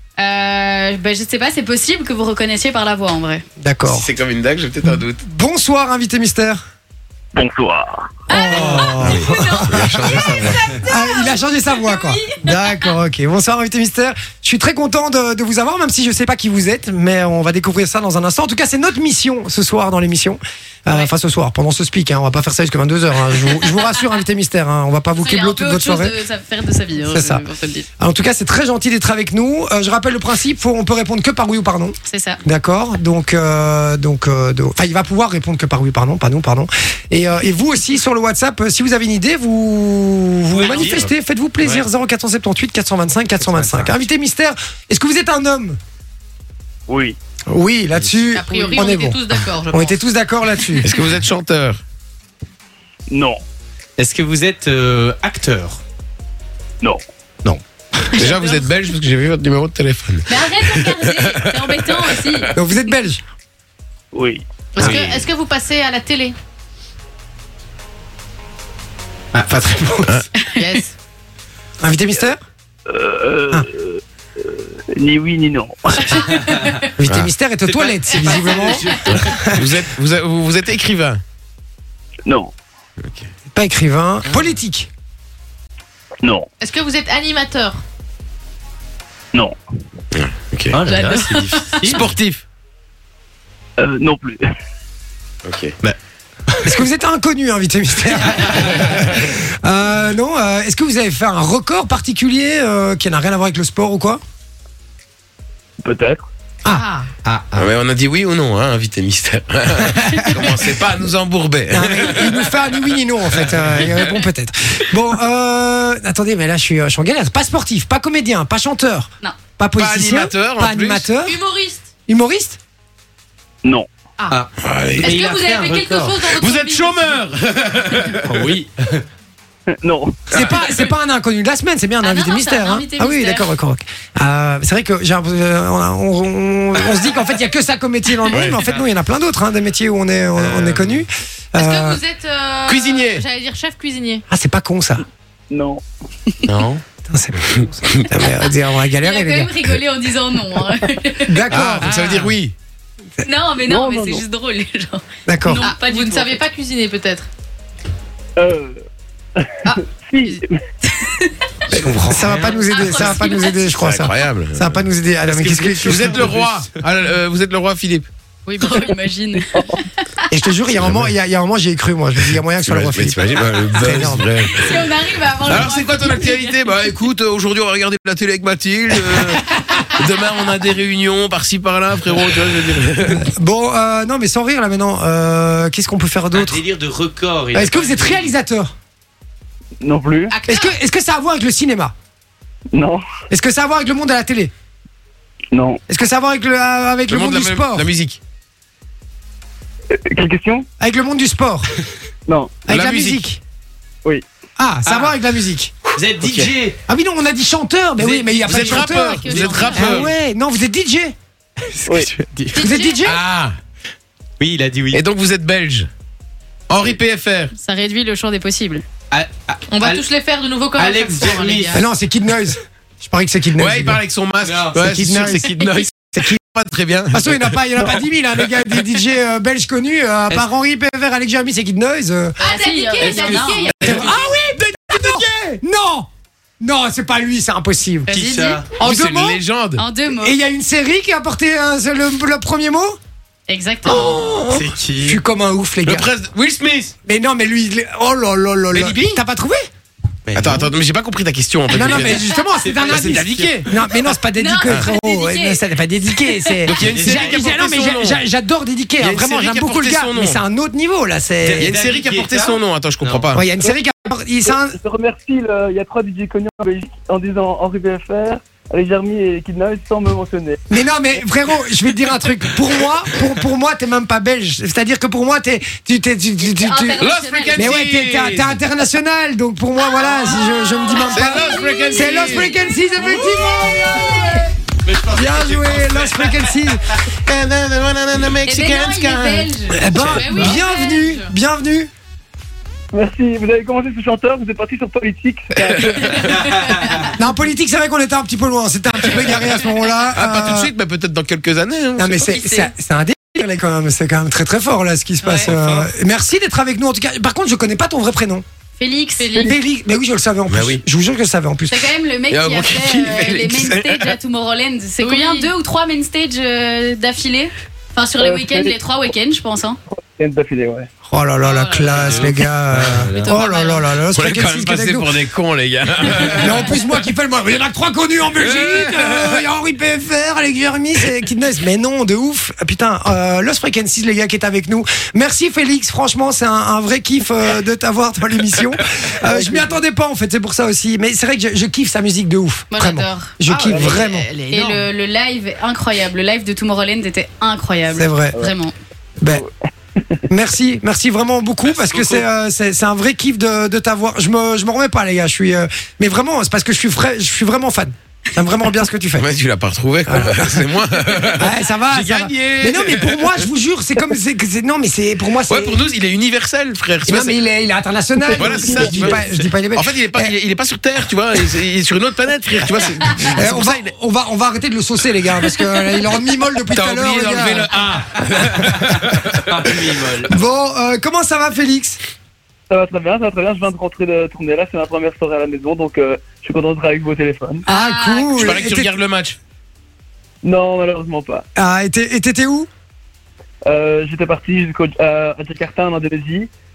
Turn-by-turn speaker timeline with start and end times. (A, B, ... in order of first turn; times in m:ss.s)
0:00.2-0:03.4 A
0:03.6-0:04.1 B
0:03.8-0:05.2 C
0:04.8-0:06.6 B
0:07.4-0:08.1 D
0:08.3-0:12.9 A
0:08.3-0:26.2 B
0:08.6-0:10.6 C
0:25.2-0:27.9 A
0:27.0-0:27.4 B
0:28.0-0:45.8 B
0:32.1-0:32.4 A
0:40.5-0:41.8 E
0:43.4-0:43.9 E
0:46.9-0:47.2 D
0:47.5-0:51.0 B
0:48.4-0:49.9 F
0:48.6-0:49.6 D
0:50.8-0:51.8 C
0:53.1-0:53.4 D
0:54.0-0:55.8 E
0:58.1-0:58.7 A
0:58.1-1:02.4 C
1:00.3-1:02.6 A
1:02.5-1:03.2 B
1:04.1-1:04.4 D
1:04.8-1:06.4 F
1:04.8-1:05.2 E
1:09.3-1:10.1 E
1:09.4-1:10.1 B
1:10.0-1:10.4 C
1:10.4-1:10.8 A
1:10.6-1:10.9 F
1:11.8-1:12.4 B
1:12.9-1:16.3 D
1:16.0-1:16.8 A
1:16.4-1:16.8 E
1:17.0-1:19.7 B
1:17.0-1:17.3 C
1:17.6-1:19.5 E
1:18.6-1:19.0 A
1:19.0-1:21.2 C
1:22.2-1:22.5 D
1:23.0-1:23.3 C
1:23.5-1:24.9 B
1:26.2-1:26.5 D
1:26.6-1:27.8 F
1:30.1-1:30.8 C
1:30.7-1:32.1 E
1:30.9-1:32.0 A
1:31.8-1:32.4 C
1:33.8-1:34.4 D
1:35.4-1:35.7 C
1:36.5-1:36.7 E
1:36.6-1:44.2 B
1:45.8-1:46.3 D
1:46.6-1:46.9 B
1:46.7-1:47.1 F
1:47.2-1:47.7 E
1:47.5-1:52.5 C
1:49.8-1:50.6 B
1:51.7-2:01.4 B
1:59.7-2:01.1 C
2:01.2-2:01.9 F
2:02.1-2:02.6 B
2:04.6-2:05.2 C
2:05.0-2:06.4 E
2:05.1-2:07.2 F
2:06.2-2:08.5 C
2:08.2-2:09.0 E
2:09.8-2:10.2 D
2:10.3-2:22.0 B
2:10.3-2:10.7 C
2:12.0-2:13.5 A
2:18.3-2:18.6 C
2:18.4-2:18.8 E
2:20.4-2:20.8 C
2:20.5-2:21.0 E
2:21.6-2:24.2 F
2:22.6-2:23.2 C
2:24.3-2:25.0 B
2:25.5-2:25.8 D
2:26.4-2:26.8 C
2:27.0-2:29.8 B
2:27.4-2:28.1 C
2:29.0-2:31.4 A
2:31.2-2:31.9 B
2:31.5-2:32.5 C
2:31.8-2:32.3 E
2:33.2-2:36.4 A
2:33.6-2:34.2 D
2:35.2-2:35.7 B
2:35.6-2:37.3 F
2:38.4-2:38.8 D
2:39.4-2:40.6 D
2:39.6-2:40.4 A
2:40.9-2:41.3 A
2:41.7-2:46.3 B
2:41.7-2:42.6 E
2:42.6-2:43.7 A
2:42.9-2:44.8 C
2:45.2-2:46.8 E
2:45.8-2:48.1 C
2:48.4-2:49.8 A
2:50.3-2:54.3 B
2:50.7-2:51.1 C
2:52.6-2:54.9 C
2:54.5-2:56.6 A
2:55.4-3:03.3 C
3:03.0-3:06.6 B
3:06.3-3:08.3 E
3:07.5-3:08.7 B
3:09.8-3:10.4 D
3:10.3-3:10.7 F
3:10.5-3:11.9 B
3:12.7-3:13.0 D
3:13.3-3:14.5 B
3:15.5-3:15.8 D
3:15.9-3:17.9 B
3:17.1-3:18.2 C
3:19.9-3:20.6 D
3:20.8-3:21.8 B
3:22.3-3:22.6 D
3:22.6-3:23.4 B
3:22.7-3:23.3 C
3:24.6-3:31.1 B
3:24.8-3:25.2 E
3:25.9-3:26.8 E
3:28.0-3:30.1 E
3:28.3-3:30.1 C
3:28.9-3:30.0 A
3:31.7-3:32.6 E
3:31.8-3:32.1 D
3:32.5-3:33.1 A
3:32.5-3:33.2 B
3:33.0-3:33.6 C
3:34.4-3:35.0 E
3:34.9-3:35.9 C
3:36.7-3:37.5 C
3:37.5-3:38.8 A
3:39.1-3:40.1 E
3:39.7-3:41.8 F
3:40.7-3:41.8 E
3:41.7-3:44.0 B
3:43.5-3:47.6 C
3:44.4-3:44.9 E
3:44.8-3:46.4 B
3:47.1-3:52.4 B
3:52.4-3:53.7 F
3:52.4-3:54.0 A
3:53.0-3:54.3 E
3:53.8-3:56.1 B
3:56.6-3:58.2 B
3:58.1-3:58.7 A
3:58.1-3:58.8 E
3:58.8-3:59.4 B
3:58.8-3:59.8 C
3:59.8-4:00.4 A
4:00.1-4:03.0 B
4:03.5-4:04.2 A
4:03.8-4:06.1 B
4:04.6-4:05.2 E
4:05.8-4:06.9 C
4:07.0-4:09.6 B
4:08.7-4:09.2 C
4:10.3-4:10.7 E
4:10.3-4:12.3 C
4:11.7-4:21.7 B
4:12.4-4:13.6 E
4:12.9-4:13.6 C
4:14.3-4:15.6 A
4:16.7-4:17.6 E
4:16.7-4:18.2 C
4:19.0-4:20.4 C
4:21.4-4:23.3 E
4:21.6-4:23.4 C
4:23.3-4:24.8 B
4:24.4-4:30.6 D
4:30.7-4:44.3 B
4:36.4-4:37.6 A
4:37.0-4:38.6 C
4:40.0-4:42.6 A
4:41.0-4:42.6 C
4:43.2-4:44.4 C
4:44.8-4:46.6 E
4:45.1-4:46.8 B
4:47.2-4:50.3 C
4:48.4-4:49.8 A
4:49.7-4:51.9 B
4:50.1-4:51.3 F
4:52.9-4:56.6 D
4:55.8-4:56.3 C
4:56.5-4:56.9 E
4:57.0-5:00.7 B
5:00.1-5:02.3 C
5:02.0-5:08.4 B
5:02.3-5:02.7 A
5:05.5-5:05.8 E
5:08.8-5:09.5 A
5:09.2-5:09.5 F
5:09.4-5:11.8 B
5:10.5-5:10.8 C
5:11.7-5:19.8 A
5:12.3-5:14.2 C
5:15.0-5:15.5 F
5:18.2-5:18.8 D
5:19.9-5:20.9 D
5:21.1-5:25.2 B
5:21.4-5:22.2 A
5:22.0-5:23.3 E
5:23.2-5:23.9 A
5:24.0-5:26.8 C
5:26.3-5:44.3 B
5:28.4-5:29.3 C
5:39.2-5:39.8 D
5:42.7-5:43.3 A
5:43.5-5:44.7 E
5:43.6-5:44.0 D
5:44.5-5:48.7 A
5:47.9-5:48.4 B
5:50.0-5:50.2 D
5:50.3-5:59.3 B
5:51.8-5:52.2 E
5:59.2-6:03.4 C
6:00.0-6:00.7 B
6:01.4-6:05.8 B
6:05.5-6:07.4 C
6:07.0-6:10.3 B
6:08.3-6:09.1 D
6:08.3-6:13.9 C
6:13.3-6:17.7 B
6:16.7-6:19.4 C
6:17.6-6:18.8 E
6:19.4-6:20.3 E
6:20.3-6:22.0 B
6:22.7-6:27.6 D
6:27.6-6:28.6 A
6:27.7-6:28.9 B
6:28.4-6:29.4 C
6:30.4-6:31.4 D
6:31.6-6:32.7 B
6:33.6-6:36.5 D